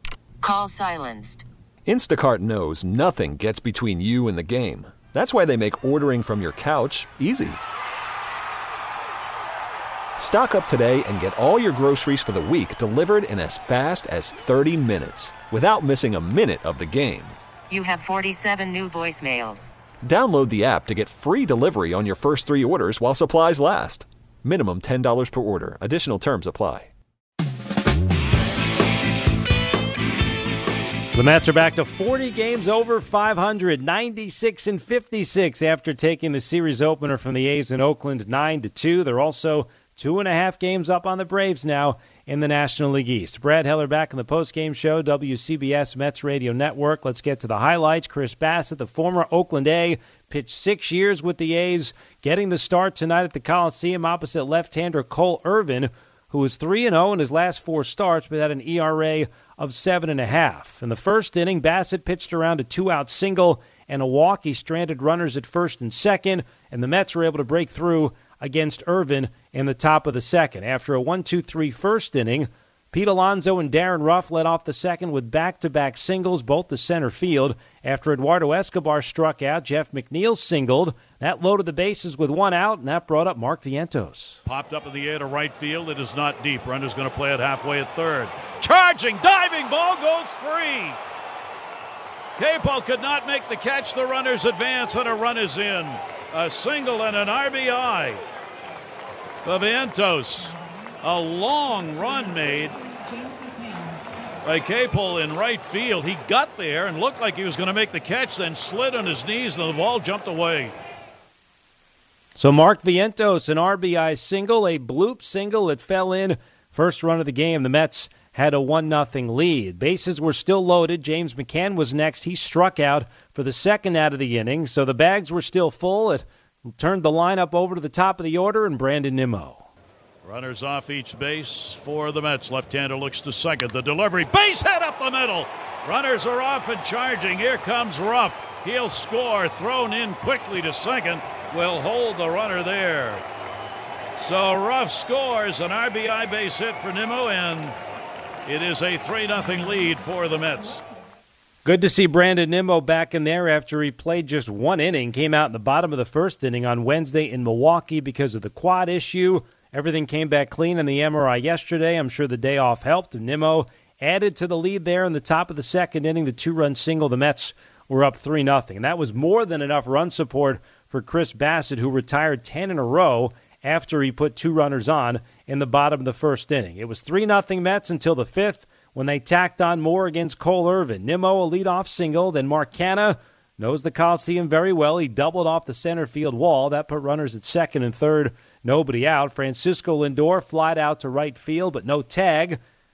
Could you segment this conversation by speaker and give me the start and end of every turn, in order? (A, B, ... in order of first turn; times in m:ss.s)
0:00.4-0:01.4 A
0:01.9-0:07.6 B
0:10.2-0:17.4 B
0:17.7-0:19.7 A
0:20.0-0:26.9 B
0:31.1-1:24.4 C
1:24.5-1:31.0 D
1:32.4-1:38.2 D
1:39.4-1:42.8 D
1:44.4-1:50.8 D
1:52.4-2:09.7 C
2:10.2-2:23.2 D
2:24.2-2:27.8 D
2:28.5-2:30.8 D
2:31.6-3:12.6 C